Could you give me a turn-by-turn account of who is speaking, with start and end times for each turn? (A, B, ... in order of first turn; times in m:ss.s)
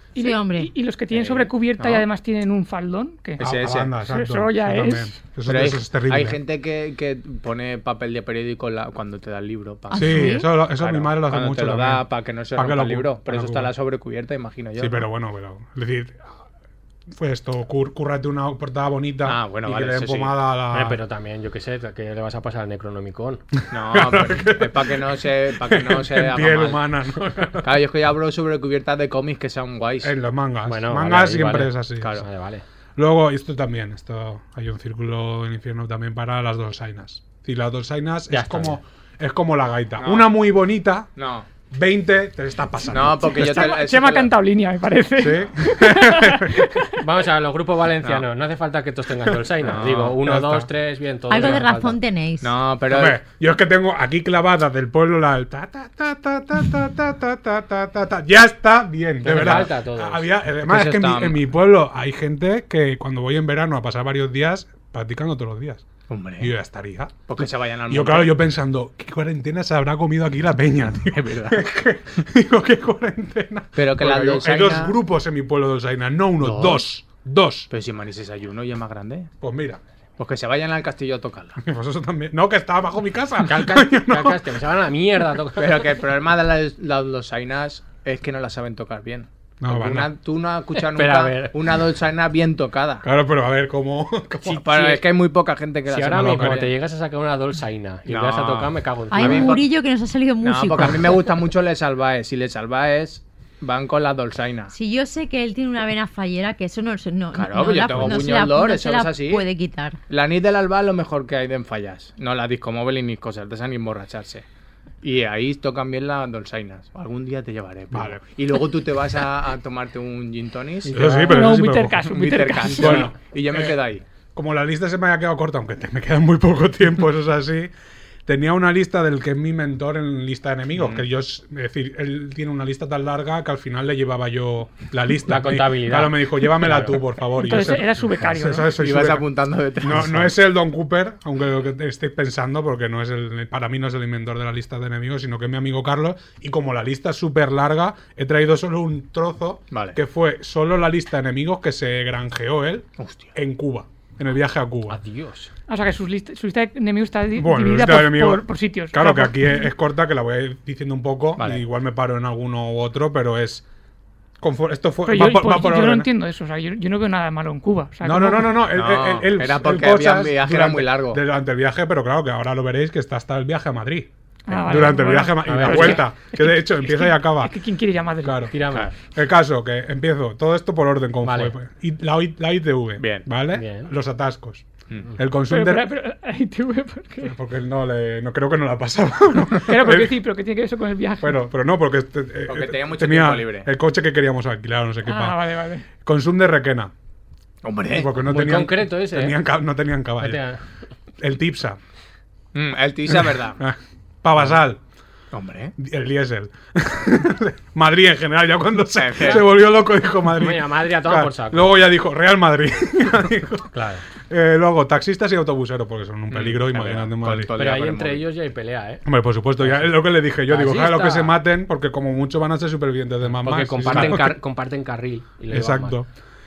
0:00.2-0:03.4 A
0:00.2-0:00.7 B
0:01.1-0:02.0 C
0:03.4-0:03.9 C
0:03.4-0:06.4 D
0:04.0-0:05.2 A
0:05.5-0:15.1 C
0:09.9-0:10.5 B
0:09.9-0:13.7 D
0:14.8-0:16.3 D
0:17.1-0:21.0 D
0:19.2-0:20.4 C
0:20.7-0:23.4 E
0:23.7-0:26.8 C
0:23.9-0:27.7 D
0:27.6-0:30.1 C
0:30.0-0:32.2 D
0:30.7-0:32.6 E
0:33.0-0:41.1 D
0:38.3-0:38.8 E
0:40.0-0:40.3 C
0:41.2-0:41.5 C
0:41.7-0:43.7 D
0:42.9-0:44.3 C
0:43.4-0:47.0 A
0:45.2-0:46.7 D
0:47.0-0:52.0 E
0:49.6-0:50.2 C
0:50.2-0:50.7 D
0:51.3-0:52.5 B
0:52.4-0:53.2 C
0:52.9-1:05.9 D
0:59.2-1:00.3 E
1:00.7-1:01.4 C
1:06.1-1:06.5 C
1:06.4-1:17.7 D
1:07.3-1:08.4 C
1:11.1-1:11.6 C
1:13.8-1:15.0 C
1:16.4-1:16.8 C
1:17.7-1:19.3 C
1:19.4-1:19.8 D
1:20.2-1:21.6 C
1:21.6-1:24.6 D
1:23.4-1:25.8 E
1:25.6-1:33.1 C
1:29.6-1:30.1 D
1:30.9-1:31.6 E
1:33.0-1:34.6 D
1:34.4-1:35.0 E
1:34.6-1:36.7 C
1:35.9-1:39.5 E
1:36.1-1:36.7 D
1:38.1-1:39.7 C
1:39.1-1:41.3 B
1:40.4-1:44.7 C
1:44.7-1:50.0 B
1:47.3-1:49.5 C
1:50.1-1:54.4 C
1:55.0-2:01.0 C
1:57.9-1:58.2 D
2:00.9-2:01.4 E
2:00.9-2:02.0 D
2:01.3-2:03.1 A
2:02.0-2:04.0 C
2:02.8-2:03.8 D
2:04.4-2:07.7 D
2:08.3-2:19.3 D
2:10.8-2:11.0 C
2:15.2-2:17.0 E
2:17.3-2:18.8 A
2:18.8-2:20.3 C
2:19.8-2:35.0 D
2:29.7-2:30.0 C
2:33.0-2:33.3 C
2:34.9-2:35.5 E
2:35.7-2:39.6 A
2:37.4-2:43.6 D
2:41.4-2:41.6 C
2:44.4-2:46.1 D
2:45.1-2:48.6 A
2:48.0-2:54.1 D
2:48.7-2:51.2 C
2:54.5-2:58.5 A
2:54.6-2:57.6 D
2:55.4-2:56.0 E
2:58.2-2:58.5 D
2:58.5-2:58.9 E
2:59.1-3:05.9 D
3:01.2-3:01.5 E
3:03.0-3:03.3 C
3:03.5-3:03.9 E
3:05.5-3:07.3 A
3:07.2-3:10.2 D
3:09.7-3:11.4 A
3:11.2-3:15.4 D
3:12.5-3:13.7 C
3:15.1-3:15.9 A
3:16.0-3:16.9 D
3:17.6-3:18.1 C
3:17.9-3:20.4 D
3:18.2-3:19.4 E
3:20.2-3:20.6 E
3:21.2-3:21.8 D
3:22.5-3:23.6 C
3:23.1-3:24.8 D
3:25.3-3:25.7 C
3:25.8-3:33.7 D
3:29.0-3:29.5 C
3:30.4-3:31.8 E
3:33.7-3:34.0 E
3:34.3-3:37.5 D
3:36.3-3:38.3 C
3:37.6-3:39.0 E
3:39.0-3:44.4 D
3:39.6-3:41.4 E
3:43.3-3:46.0 E
3:43.9-3:44.2 C
3:45.5-3:46.1 D